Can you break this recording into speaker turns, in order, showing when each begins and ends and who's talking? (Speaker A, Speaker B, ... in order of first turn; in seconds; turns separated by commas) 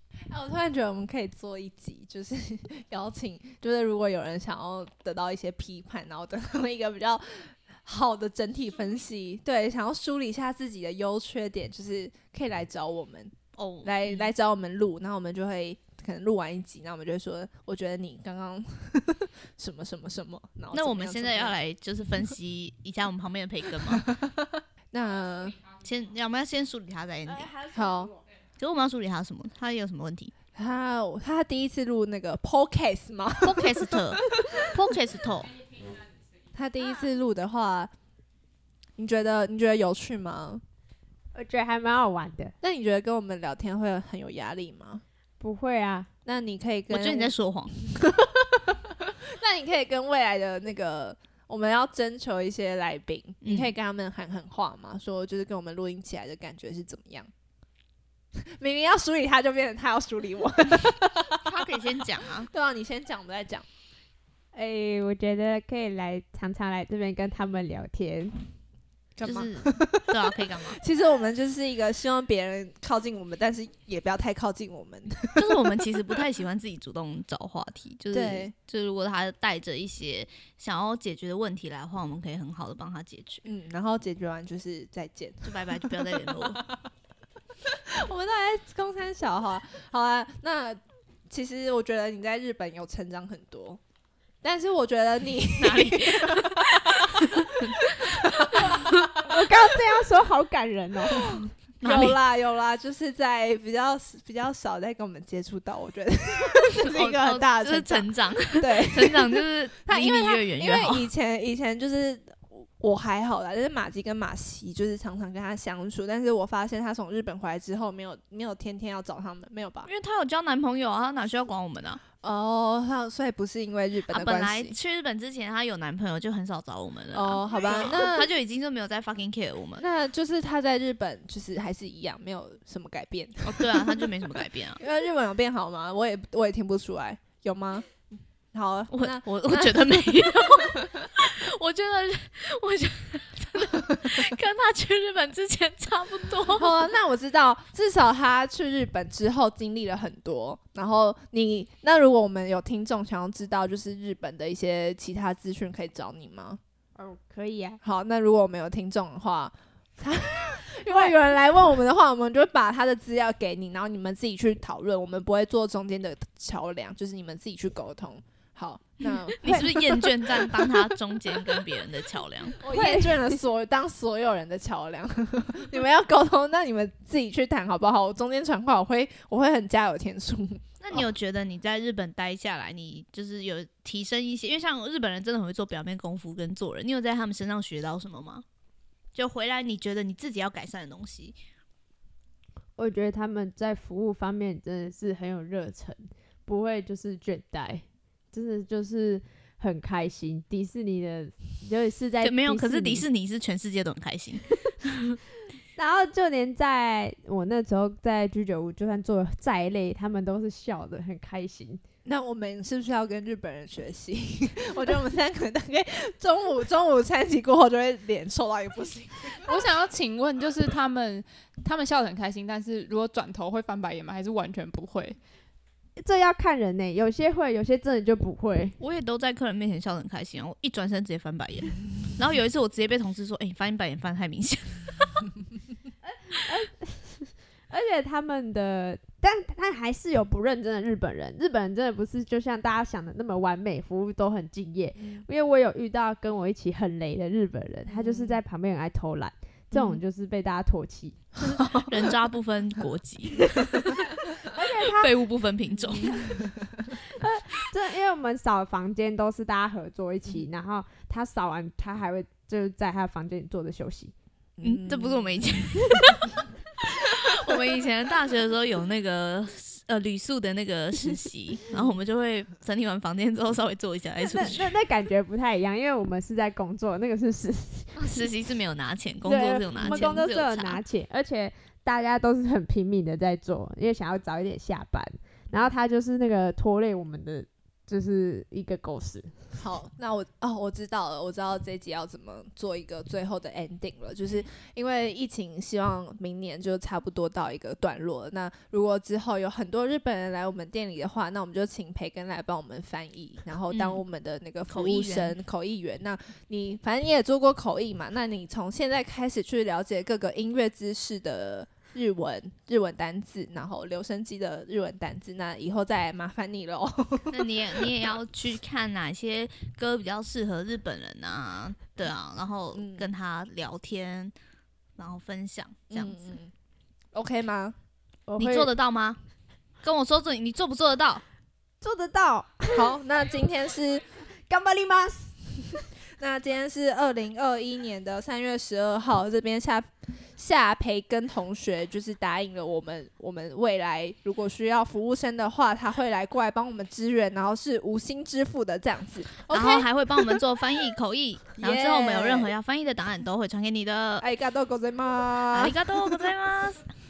Speaker A: 0.3-21.6, Speaker B: 13.6-14.3, Speaker B: 20.7-24.0, Speaker A: 23.8-25.7, Speaker B: 25.8-27.5, Speaker C: 27.2-28.2, Speaker A: 27.7-28.1, Speaker B: 28.6-30.3, Speaker A: 30.5-34.8, Speaker B: 33.4-35.6, Speaker A: 36.5-37.9, Speaker A: 39.0-40.6, Speaker C: 41.3-42.5, Speaker A: 42.6-45.0, Speaker C: 45.4-46.1, Speaker A: 46.2-57.3, Speaker B: 46.9-47.8, Speaker B: 53.4-53.7, Speaker A: 58.4-63.6, Speaker B: 61.3-62.5, Speaker C: 64.5-68.3, Speaker A: 69.2-75.9, Speaker B: 69.2-70.8, Speaker B: 75.3-83.4, Speaker A: 78.1-78.5, Speaker A: 83.4-86.8, Speaker B: 85.4-86.6, Speaker A: 87.7-93.8, Speaker A: 94.4-99.4, Speaker B: 95.6-99.1, Speaker C: 99.2-101.4, Speaker A: 101.1-119.9, Speaker B: 101.8-102.2, Speaker B: 106.8-111.1, Speaker B: 119.8-122.0, Speaker A: 122.2-124.8, Speaker B: 124.1-129.8, Speaker A: 127.1-128.3, Speaker A: 129.8-141.1, Speaker B: 133.4-134.8, Speaker B: 138.9-146.9, Speaker A: 146.5-156.6, Speaker C: 156.9-157.8, Speaker A: 157.8-170.1, Speaker B: 169.4-172.6, Speaker A: 172.6-181.1, Speaker C: 172.7-173.3, Speaker B: 180.8-188.4, Speaker B: 189.1-191.3, Speaker C: 192.8-203.0, Speaker B: 202.2-205.2, Speaker C: 205.8-211.8, Speaker A: 212.0-219.5, Speaker D: 219.4-225.2, Speaker C: 226.0-228.7, Speaker B: 228.8-235.3, Speaker C: 236.0-251.2, Speaker A: 245.0-245.2, Speaker A: 247.9-248.4, Speaker B: 251.4-253.9, Speaker A: 251.6-251.9, Speaker C: 254.5-255.1, Speaker B: 254.8-256.3, Speaker C: 257.1-264.1, Speaker A: 264.6-265.6, Speaker B: 264.6-274.7, Speaker C: 274.2-278.1, Speaker B: 278.0-280.8, Speaker C: 279.2-289.3, Speaker A: 279.8-280.2, Speaker A: 289.6-318.0, Speaker B: 303.7-304.0, Speaker B: 304.7-305.4, Speaker B: 317.3-324.3, Speaker A: 322.7-323.1, Speaker B: 325.0-326.2, Speaker A: 325.9-326.5, Speaker A: 327.1-327.7, Speaker C: 328.3-328.7, Speaker B: 328.4-329.2, Speaker B: 329.8-331.2, Speaker C: 331.8-332.9, Speaker A: 332.7-334.1, Speaker C: 334.5-335.8, Speaker A: 336.0-350.4, Speaker B: 349.5-354.2, Speaker A: 351.6-352.5, Speaker A: 354.2-356.0, Speaker B: 355.5-356.8